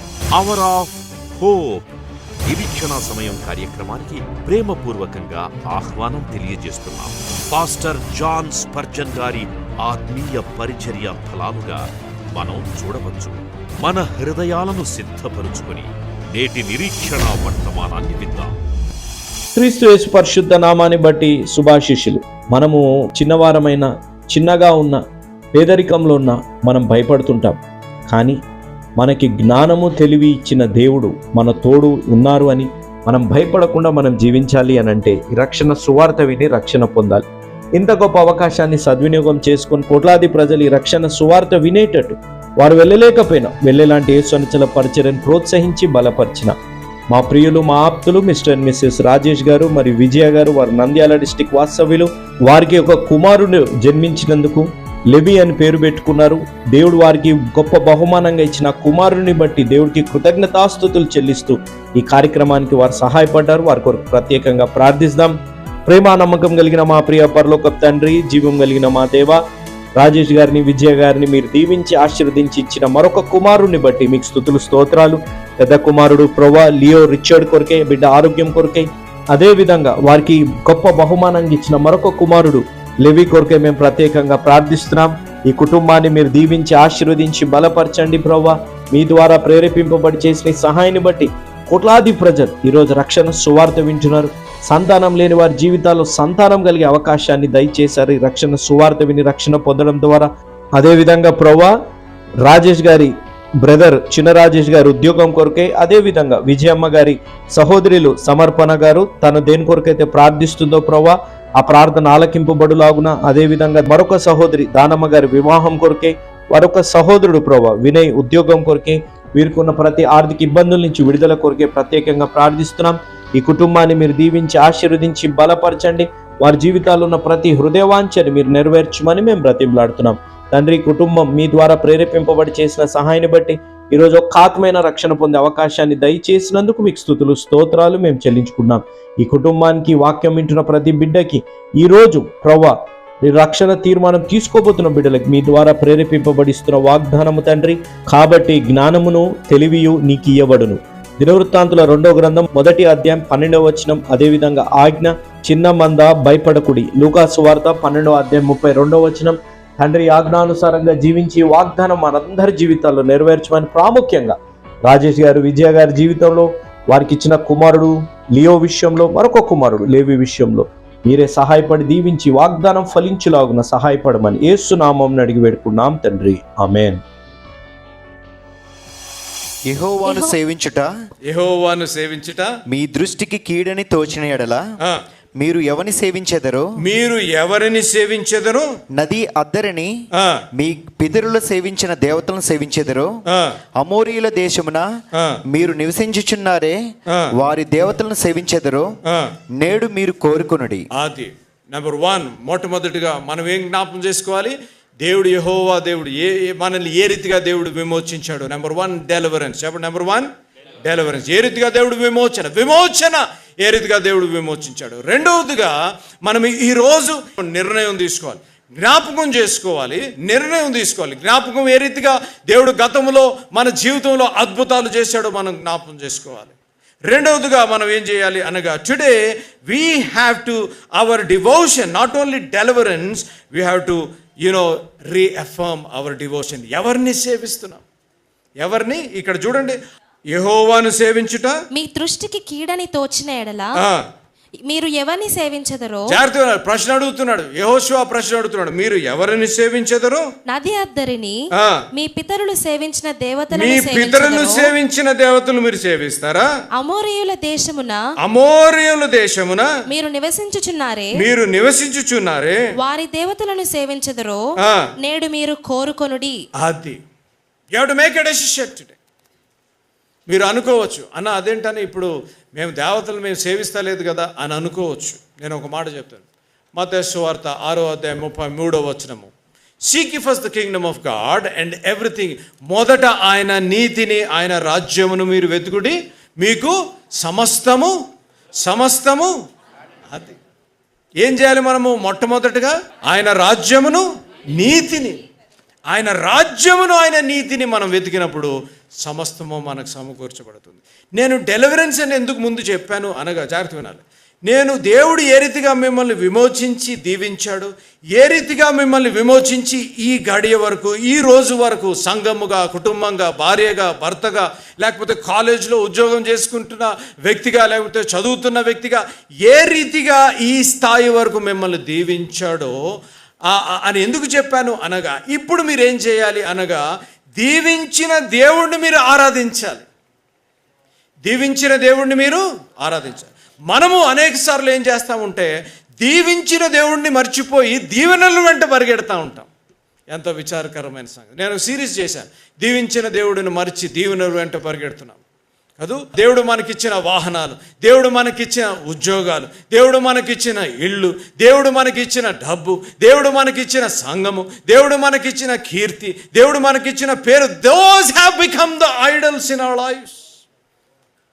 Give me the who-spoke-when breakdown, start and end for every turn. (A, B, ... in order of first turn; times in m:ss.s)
0:00.3-0:01.9 A
0:02.4-0:18.5 A
0:19.6-0:25.0 B
0:25.5-0:28.4 B
0:29.0-0:37.2 B
0:37.8-0:46.5 B
0:47.1-1:09.4 B
1:10.0-1:41.8 B
1:42.4-2:57.0 B
2:59.7-3:00.9 C
3:00.0-3:00.3 D
3:01.3-3:02.5 E
3:02.7-3:04.6 C
3:05.4-3:06.7 C
3:06.8-3:08.7 E
3:08.9-3:09.9 C
3:10.2-3:10.4 E
3:10.5-3:13.1 C
3:13.3-3:13.6 E
3:13.8-3:19.0 C
3:19.1-3:19.3 E
3:19.5-3:20.9 C
3:20.9-3:30.3 E
3:30.8-3:46.5 E
3:47.1-3:57.8 E
3:58.6-3:59.8 E
4:00.3-4:01.6 E
4:01.7-4:03.8 D
4:03.8-4:04.1 E
4:04.7-4:06.2 D
4:06.1-4:10.3 E
4:10.5-4:11.4 D
4:11.6-4:11.8 E
4:11.9-4:14.7 D
4:13.5-4:16.5 E
4:16.8-4:18.0 D
4:18.2-4:19.7 E
4:19.9-4:21.2 D
4:21.2-4:22.6 E
4:22.8-4:24.4 D
4:24.6-4:24.9 E
4:25.0-4:26.4 D
4:26.6-4:27.0 E
4:27.7-4:29.0 E
4:30.3-4:36.2 E
4:36.8-4:39.3 E
4:39.9-4:47.9 E
4:48.6-4:49.3 E
4:50.1-4:50.4 E
4:51.2-4:54.0 E
4:54.6-4:55.2 E
4:55.9-5:22.8 E
5:23.5-5:26.8 E
5:27.4-5:29.8 E
5:31.2-5:39.5 E
5:40.1-5:45.2 E
5:45.8-6:00.2 E